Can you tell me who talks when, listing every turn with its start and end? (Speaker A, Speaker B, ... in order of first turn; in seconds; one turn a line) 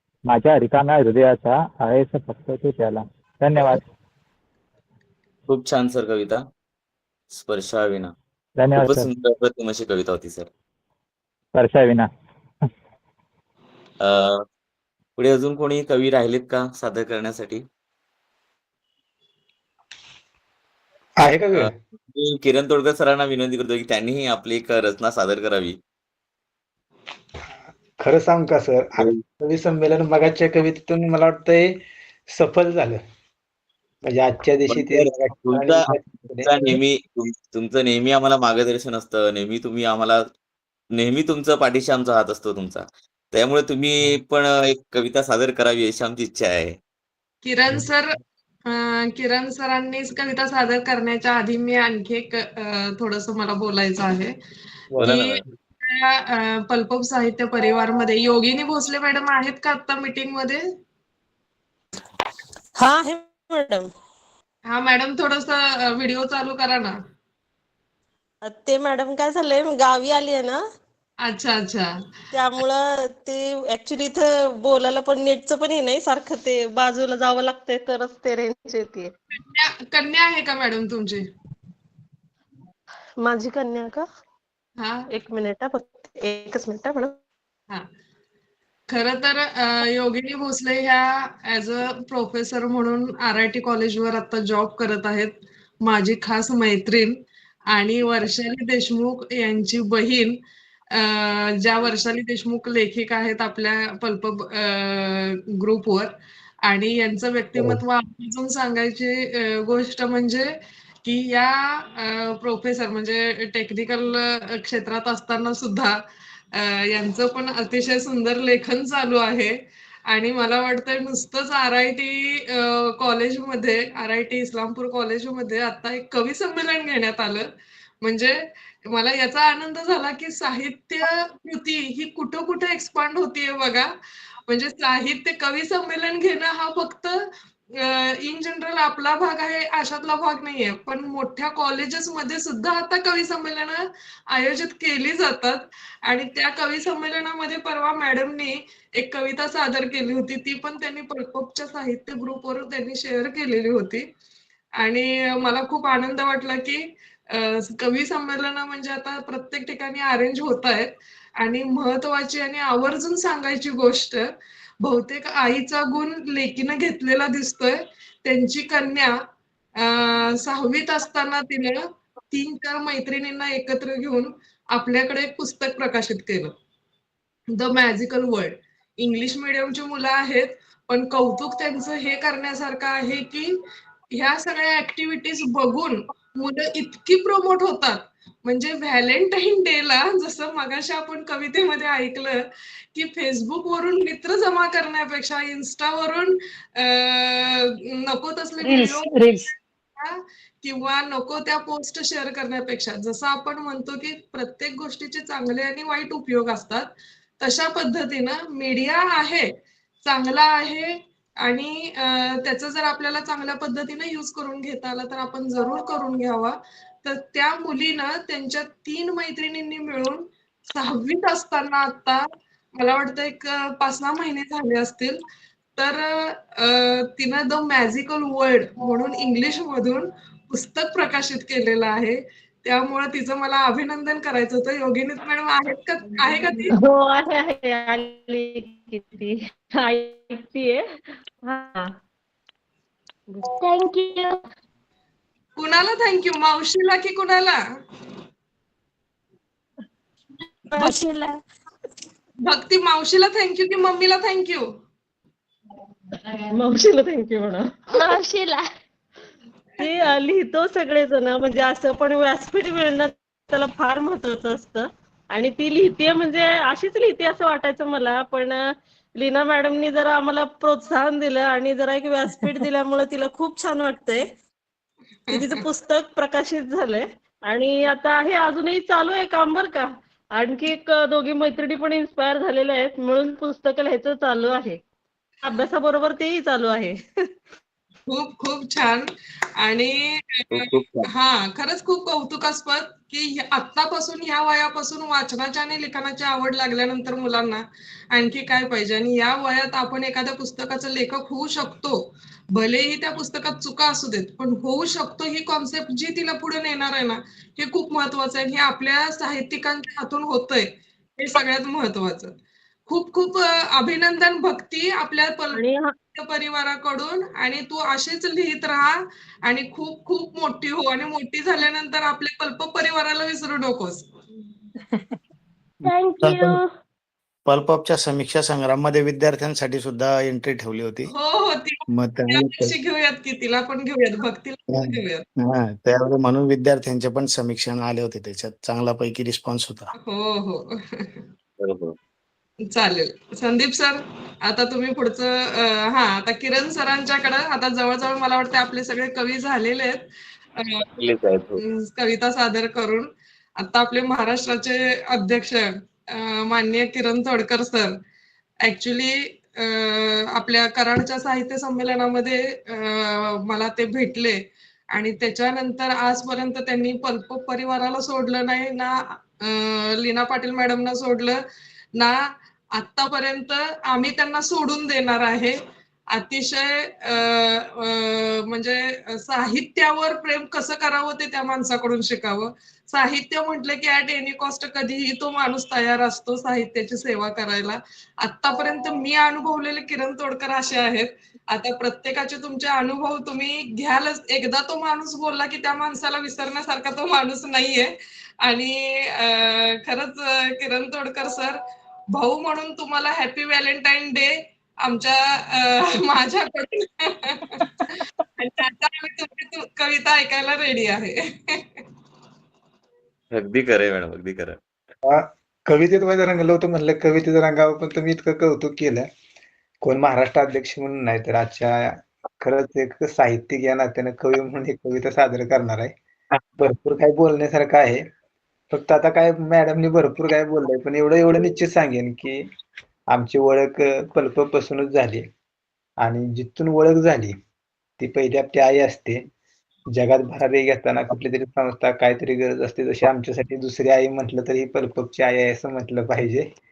Speaker A: 0.3-3.8
Speaker B: 5.5-6.5
Speaker B: 7.3-8.1
Speaker A: 8.6-9.1
Speaker B: 8.8-10.5
Speaker A: 11.5-12.1
Speaker B: 14.0-14.4
Speaker B: 15.2-17.6
Speaker C: 21.2-21.7
Speaker B: 21.5-25.8
Speaker C: 28.0-33.0
Speaker C: 34.0-36.8
Speaker B: 34.7-40.2
Speaker B: 40.9-46.8
Speaker D: 47.4-54.4
Speaker B: 54.9-55.4
Speaker D: 55.0-60.6
Speaker E: 62.8-63.9
Speaker D: 64.7-67.0
Speaker E: 68.4-70.6
Speaker D: 71.2-71.9
Speaker E: 72.3-79.1
Speaker D: 79.3-81.2
Speaker E: 83.2-84.0
Speaker D: 84.8-85.1
Speaker E: 85.1-87.1
Speaker D: 88.9-97.2
Speaker D: 97.7-100.4
Speaker D: 100.9-110.5
Speaker D: 111.0-116.0
Speaker D: 116.5-119.5
Speaker D: 120.1-127.5
Speaker D: 128.0-133.9
Speaker D: 134.5-154.1
Speaker D: 154.8-164.3
Speaker D: 164.8-169.2
Speaker D: 169.8-176.5
Speaker D: 177.5-183.6
Speaker D: 184.1-199.4
Speaker D: 200.0-209.5
Speaker D: 210.0-222.2
Speaker D: 222.8-225.2
Speaker D: 225.8-236.7
Speaker E: 236.7-240.8
Speaker E: 241.4-241.9
Speaker F: 243.5-244.4
Speaker D: 245.6-247.6
Speaker E: 250.7-251.3
Speaker D: 252.4-254.7
Speaker E: 256.4-258.2
Speaker F: 257.9-258.6
Speaker E: 259.8-268.6
Speaker E: 269.1-274.2
Speaker E: 275.3-284.8
Speaker E: 285.4-287.0
Speaker D: 288.1-289.1
Speaker D: 289.6-312.3
Speaker B: 290.5-291.1
Speaker D: 312.9-315.6
Speaker E: 315.5-315.9
Speaker D: 316.1-324.1
Speaker F: 325.8-326.7
Speaker G: 326.2-326.6
Speaker G: 327.4-331.1
Speaker D: 331.1-335.2
Speaker G: 331.9-332.8
Speaker G: 334.7-339.9
Speaker D: 340.0-341.2
Speaker B: 341.6-341.9
Speaker D: 342.7-350.8
Speaker B: 350.9-351.6
Speaker D: 351.6-358.0
Speaker D: 358.6-364.4
Speaker D: 364.9-371.4
Speaker D: 372.7-375.6
Speaker D: 376.1-401.6
Speaker D: 402.1-411.8
Speaker B: 413.3-414.6
Speaker C: 415.0-419.1
Speaker C: 419.8-425.9
Speaker C: 426.6-428.0
Speaker C: 428.7-432.4
Speaker C: 433.1-435.2
Speaker C: 436.0-437.3
Speaker C: 438.0-439.3
Speaker C: 439.9-446.5